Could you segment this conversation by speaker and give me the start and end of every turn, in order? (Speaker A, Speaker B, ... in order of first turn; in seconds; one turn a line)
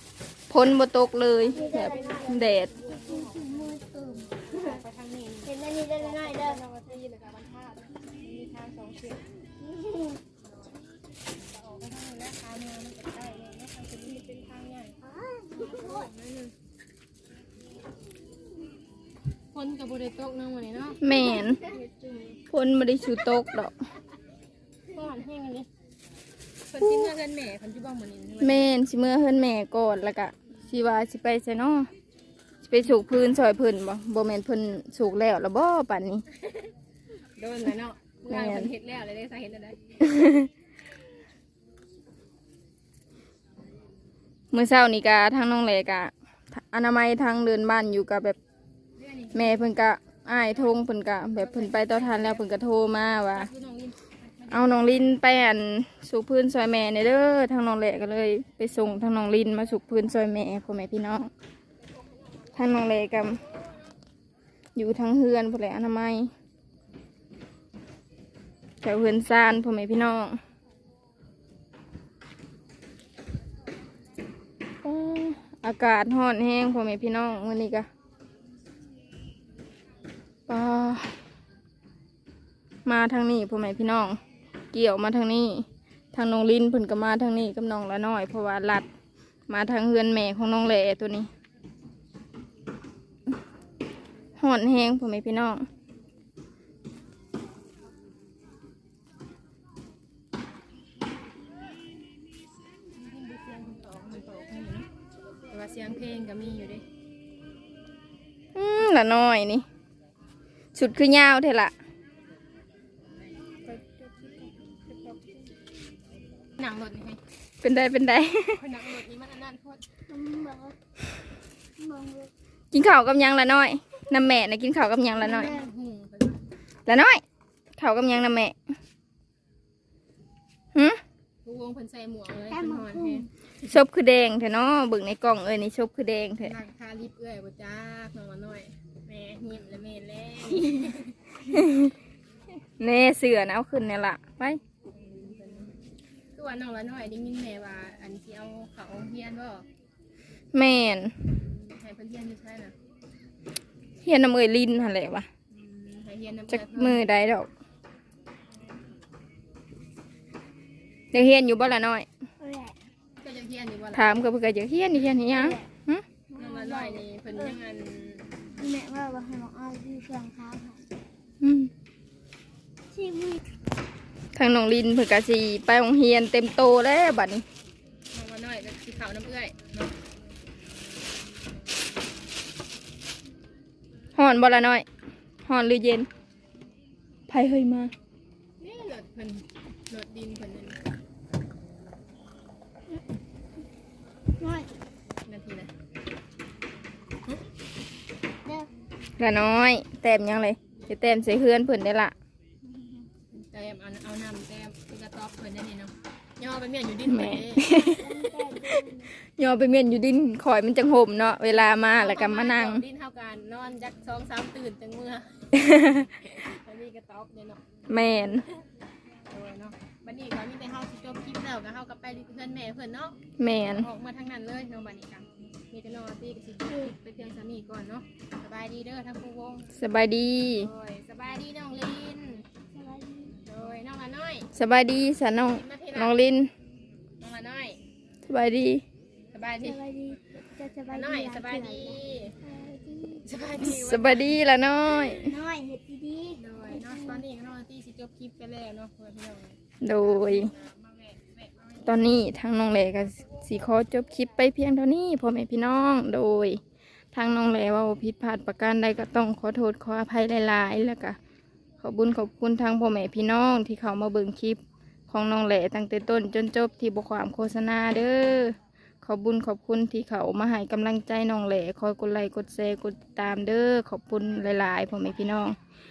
Speaker A: 0.5-2.7
Speaker B: 1.5-9.2
Speaker C: 1.5-4.8
Speaker C: 5.5-6.6
Speaker C: 9.6-10.2
Speaker B: 11.5-15.0
Speaker C: 15.0-16.1
Speaker B: 15.5-16.5
Speaker B: 19.5-22.4
Speaker A: 21.0-21.6
Speaker C: 21.1-22.2
Speaker A: 22.5-23.7
Speaker B: 24.9-25.7
Speaker B: 26.7-28.7
Speaker A: 28.4-31.9
Speaker A: 32.7-36.2
Speaker B: 37.4-40.0
Speaker A: 38.3-38.7
Speaker A: 40.0-40.5
Speaker A: 44.5-48.4
Speaker B: 49.0-49.7
Speaker A: 49.3-53.5
Speaker B: 50.6-52.5
Speaker B: 53.3-54.9
Speaker A: 54.5-61.3
Speaker B: 61.8-63.7
Speaker A: 62.5-63.4
Speaker A: 64.8-66.3
Speaker A: 68.8-70.4
Speaker A: 74.8-77.9
Speaker A: 80.5-81.2
Speaker A: 82.9-84.2
Speaker A: 84.7-88.9
Speaker A: 89.5-91.3
Speaker A: 94.4-95.7
Speaker B: 102.9-104.9
Speaker B: 105.5-106.8
Speaker A: 108.5-109.7
Speaker A: 110.8-111.7
Speaker B: 113.5-115.5
Speaker B: 116.6-117.2
Speaker A: 117.6-118.6
Speaker B: 118.5-119.8
Speaker C: 120.1-120.8
Speaker C: 121.8-122.3
Speaker A: 122.7-125.6
Speaker B: 125.2-126.4
Speaker C: 125.3-125.7
Speaker A: 126.9-127.2
Speaker A: 127.8-128.6
Speaker A: 130.8-131.0
Speaker B: 131.4-133.3
Speaker C: 132.5-133.3
Speaker A: 133.6-136.6
Speaker B: 136.4-141.2
Speaker A: 141.5-141.9
Speaker A: 142.8-144.6
Speaker B: 144.9-145.8
Speaker B: 146.3-149.7
Speaker A: 150.5-151.3
Speaker B: 151.4-152.7
Speaker A: 154.0-155.3
Speaker B: 155.5-157.1
Speaker A: 156.5-157.5
Speaker A: 161.1-162.1
Speaker C: 162.4-162.8
Speaker B: 163.2-164.2
Speaker A: 163.9-166.1
Speaker C: 165.3-165.7
Speaker C: 166.3-167.6
Speaker B: 166.3-168.6
Speaker C: 168.6-170.8
Speaker A: 171.4-171.7
Speaker C: 172.9-173.4
Speaker A: 174.3-177.4
Speaker B: 178.1-179.9
Speaker A: 184.2-184.9
Speaker A: 185.4-186.1
Speaker A: 187.3-187.9
Speaker B: 188.6-190.8
Speaker C: 194.4-194.7
Speaker B: 195.3-195.7
Speaker A: 199.2-202.1
Speaker C: 202.6-203.1
Speaker B: 203.3-207.8
Speaker A: 207.1-208.2
Speaker C: 207.6-209.1
Speaker A: 209.2-212.8
Speaker B: 212.0-217.6
Speaker A: 215.5-216.1
Speaker A: 217.9-218.5
Speaker B: 218.3-218.6
Speaker B: 219.3-229.7
Speaker A: 223.4-223.9
Speaker A: 229.8-230.7
Speaker B: 230.5-232.4
Speaker C: 232.7-233.4
Speaker B: 233.5-234.5
Speaker A: 234.6-236.5
Speaker B: 235.5-236.2
Speaker B: 237.2-237.8
Speaker A: 238.3-238.8
Speaker B: 239.3-239.8
Speaker C: 239.6-243.3
Speaker B: 240.9-242.3
Speaker B: 243.2-244.4
Speaker A: 243.6-245.4
Speaker C: 244.9-247.2
Speaker B: 246.4-252.2
Speaker A: 249.8-250.5
Speaker A: 251.8-256.6
Speaker A: 257.1-261.2
Speaker A: 261.8-275.6